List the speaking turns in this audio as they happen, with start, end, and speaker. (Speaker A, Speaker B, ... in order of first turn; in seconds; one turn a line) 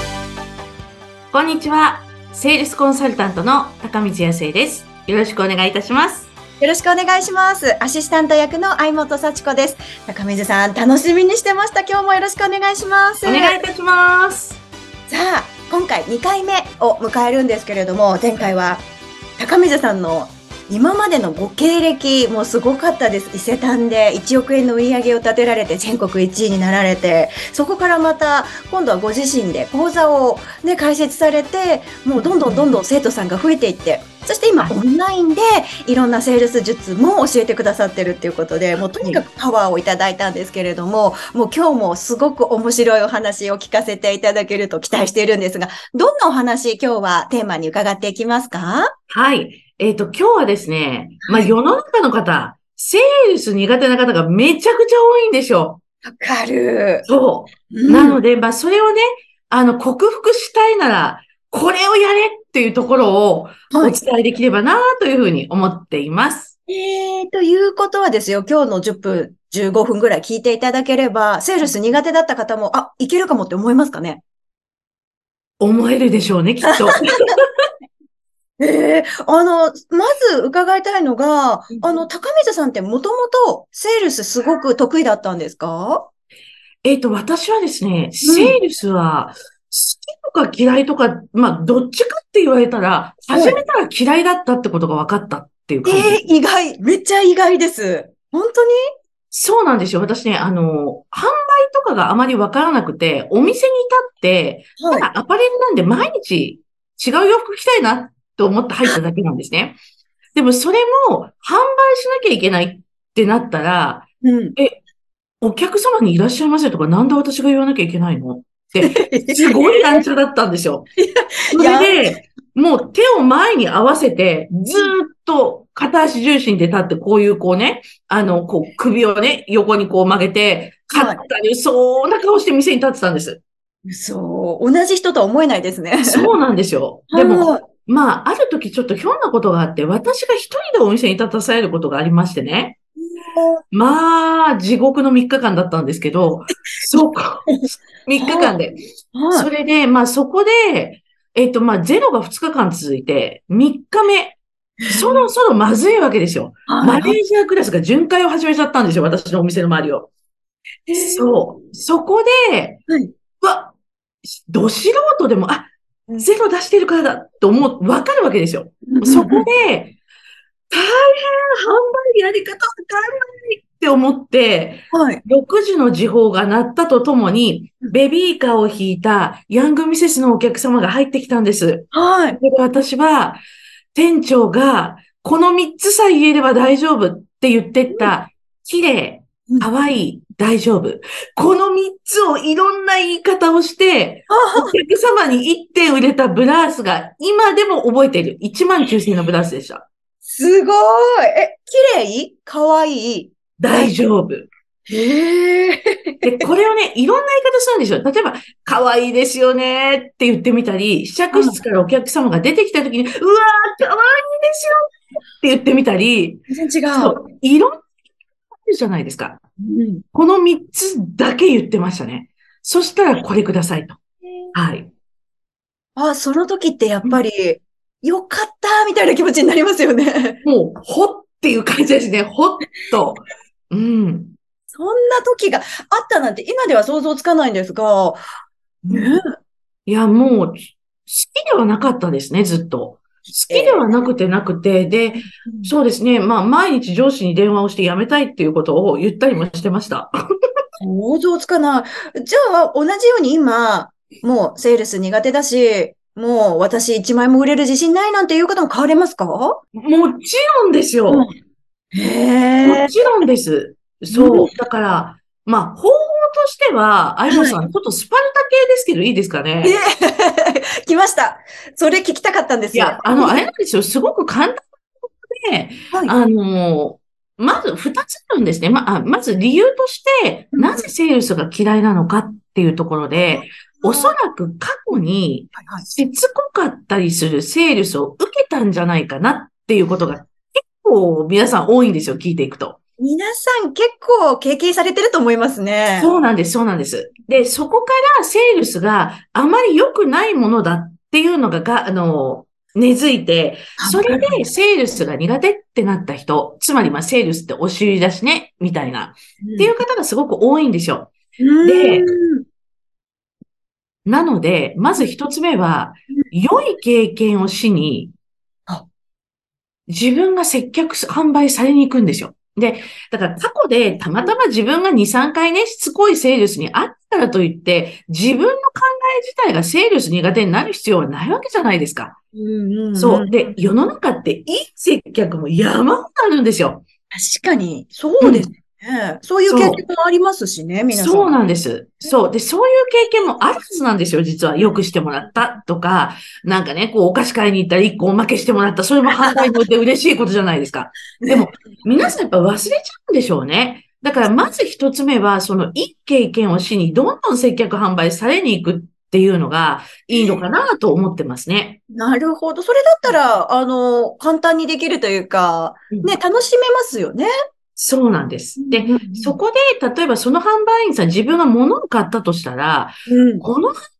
Speaker A: 1.3-6.3
Speaker B: 6.6-13.6
Speaker A: 13.2-14.6
Speaker B: 15.1-18.9
Speaker B: 19.4-48.9
Speaker A: 32.2-32.7
Speaker A: 49.1-55.8
Speaker B: 51.2-51.5
Speaker B: 56.0-57.0
Speaker A: 57.0-66.5
Speaker B: 57.7-58.2
Speaker B: 63.7-64.0
Speaker B: 66.7-74.2
Speaker A: 75.6-77.4
Speaker B: 76.6-77.3
Speaker B: 78.6-86.1
Speaker A: 81.7-82.0
Speaker A: 86.8-96.2
Speaker B: 88.2-88.6
Speaker B: 93.3-93.6
Speaker B: 95.8-98.8
Speaker A: 99.3-109.8
Speaker B: 104.8-105.1
Speaker A: 110.3-114.7
Speaker B: 114.2-114.5
Speaker A: 115.4-120.9
Speaker B: 118.8-120.0
Speaker B: 121.0-122.2
Speaker A: 121.5-133.4
Speaker B: 130.9-131.2
Speaker B: 133.8-136.3
Speaker A: 136.0-142.8
Speaker B: 137.1-137.7
Speaker B: 143.0-143.6
Speaker A: 143.7-148.8
Speaker B: 148.2-148.6
Speaker B: 149.1-149.5
Speaker A: 149.3-160.1
Speaker B: 154.9-155.3
Speaker B: 156.7-157.2
Speaker B: 160.9-161.3
Speaker A: 160.9-162.8
Speaker A: 163.4-163.7
Speaker A: 164.4-170.0
Speaker B: 168.9-169.5
Speaker A: 170.7-183.4
Speaker B: 174.9-175.2
Speaker B: 181.9-182.4
Speaker A: 183.9-199.8
Speaker B: 194.3-194.8
Speaker B: 200.2-203.9
Speaker A: 203.6-204.5
Speaker B: 204.9-206.4
Speaker A: 206.2-217.8
Speaker B: 211.3-211.6
Speaker B: 216.5-217.2
Speaker A: 218.6-219.4
Speaker B: 219.6-220.0
Speaker A: 220.1-224.0
Speaker A: 224.5-224.9
Speaker B: 225.9-230.4
Speaker A: 230.4-234.3
Speaker B: 234.7-238.2
Speaker B: 238.9-239.2
Speaker A: 239.8-250.1
Speaker B: 243.5-244.1
Speaker B: 245.2-245.7
Speaker B: 250.8-259.6
Speaker A: 259.7-261.3
Speaker B: 261.1-261.3
Speaker B: 261.9-262.9
Speaker A: 262.6-269.8
Speaker B: 264.1-264.6
Speaker B: 267.3-267.6
Speaker B: 269.6-273.4
Speaker A: 272.7-274.7
Speaker A: 275.2-292.8
Speaker B: 280.5-280.9
Speaker B: 283.2-284.1
Speaker B: 285.5-285.9
Speaker B: 293.0-296.1
Speaker A: 296.0-312.1
Speaker B: 303.8-304.4
Speaker B: 309.4-309.7
Speaker B: 311.4-312.4
Speaker A: 314.1-318.1
Speaker A: 319.9-332.2
Speaker B: 332.3-333.4
Speaker A: 332.9-336.8
Speaker B: 337.1-341.4
Speaker A: 338.2-338.5
Speaker A: 339.5-339.8
Speaker A: 340.9-361.8
Speaker B: 349.2-349.5
Speaker B: 351.2-352.1
Speaker B: 354.2-354.5
Speaker B: 360.1-360.4
Speaker B: 361.9-367.3
Speaker A: 367.8-373.8
Speaker B: 368.6-369.4
Speaker B: 373.1-373.4